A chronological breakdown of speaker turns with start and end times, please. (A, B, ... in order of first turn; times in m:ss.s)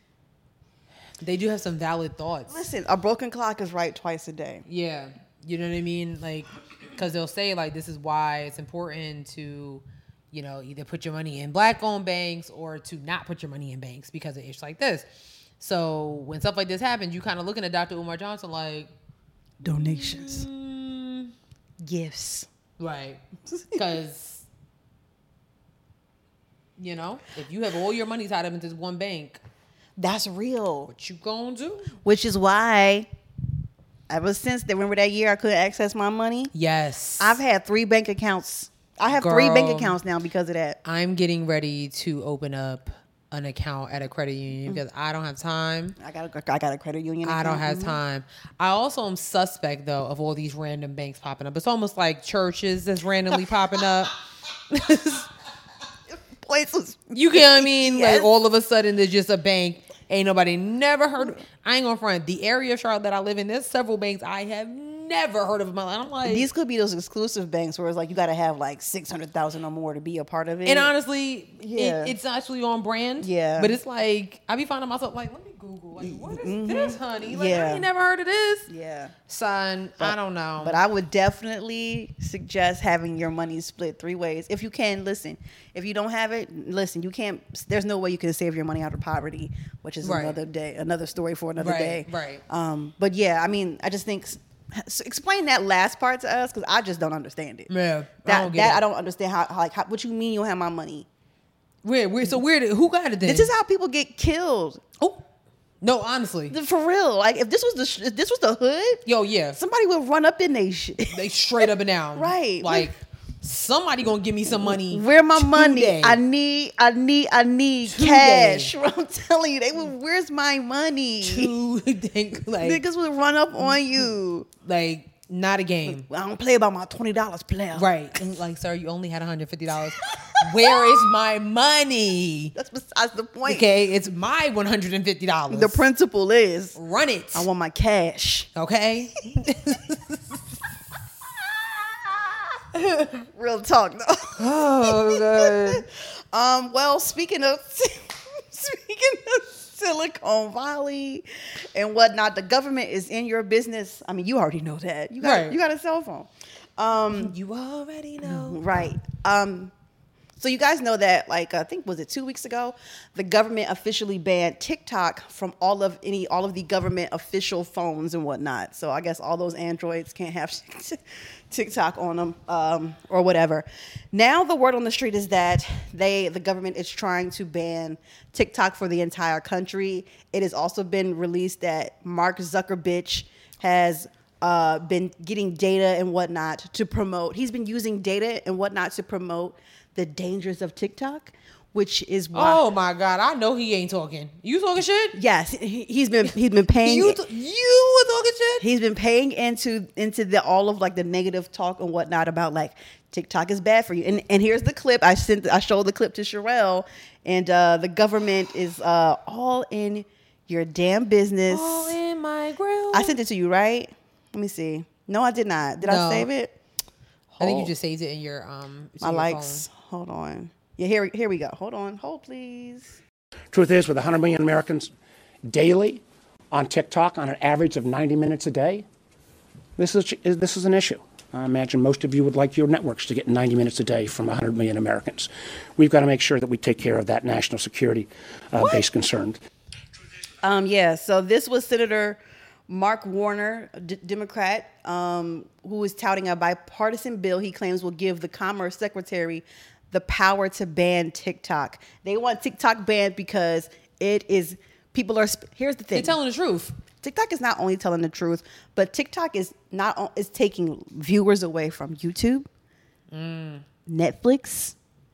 0:01.2-0:02.6 A
0:02.5-0:04.6 B
0:04.7-0:18.9 A
0:19.6-0:20.5 B
0:19.7-0:21.3 A
0:21.8-0:22.5 B
0:22.8-0:24.4 A
0:26.8-0:29.4 A
0:30.0-0:30.9 B
0:30.9-0:32.0 A
0:32.0-0:33.1 B
0:34.1-0:36.5 B
0:36.5-0:37.4 A
0:37.2-0:40.8 B
0:39.1-0:40.0 A
0:40.8-0:46.0 A
0:46.0-0:48.0 B
0:47.2-0:54.2 A
0:54.7-0:55.3 A
0:56.1-0:58.3 B
0:57.1-1:06.5 A
1:06.2-1:10.9 B
1:10.6-1:18.7 A
1:11.6-1:12.2 B
1:13.2-1:13.8 B
1:16.0-1:17.8 B
1:18.7-1:19.1 B
1:19.3-1:20.8 A
1:20.0-1:37.7 B
1:30.0-1:30.4 A
1:31.6-1:32.4 A
1:37.7-1:38.8 A
1:38.2-1:41.1 B
1:41.8-1:43.5 A
1:43.2-1:44.8 B
1:45.0-1:45.2 A
1:45.8-1:46.6 A
1:46.5-1:51.2 B
1:49.0-1:49.6 A
1:51.1-1:56.2 A
1:52.2-1:52.9 B
1:54.5-2:01.5 B
1:57.8-1:58.7 A
2:01.2-2:02.8 A
2:02.6-2:04.5 B
2:03.6-2:04.1 A
2:04.6-2:06.0 A
2:05.9-2:07.9 B
2:07.7-2:12.5 A
2:10.2-2:10.9 B
2:12.5-2:13.7 B
2:13.4-2:15.8 A
2:15.5-2:16.8 B
2:16.8-2:17.5 A
2:17.3-2:18.5 B
2:18.5-2:20.4 A
2:22.7-2:23.2 A
2:23.3-2:37.3 B
2:24.4-2:25.8 A
2:35.2-2:35.6 A
2:37.1-2:38.6 A
2:38.2-2:39.7 B
2:40.4-3:12.6 B
3:12.3-3:15.2 A
3:15.1-3:17.2 B
3:16.8-3:18.6 A
3:18.6-3:32.0 B
3:31.5-3:33.2 A
3:32.9-3:36.5 B
3:35.8-3:36.3 A
3:37.3-3:37.7 B
3:37.4-3:39.7 A
3:39.0-3:43.0 B
3:43.5-3:44.9 C
3:45.5-3:48.8 C
3:49.8-3:59.4 C
4:00.4-4:16.2 B
4:15.9-4:16.8 A
4:17.0-4:22.4 B
4:23.1-4:23.6 A
4:23.8-4:24.8 B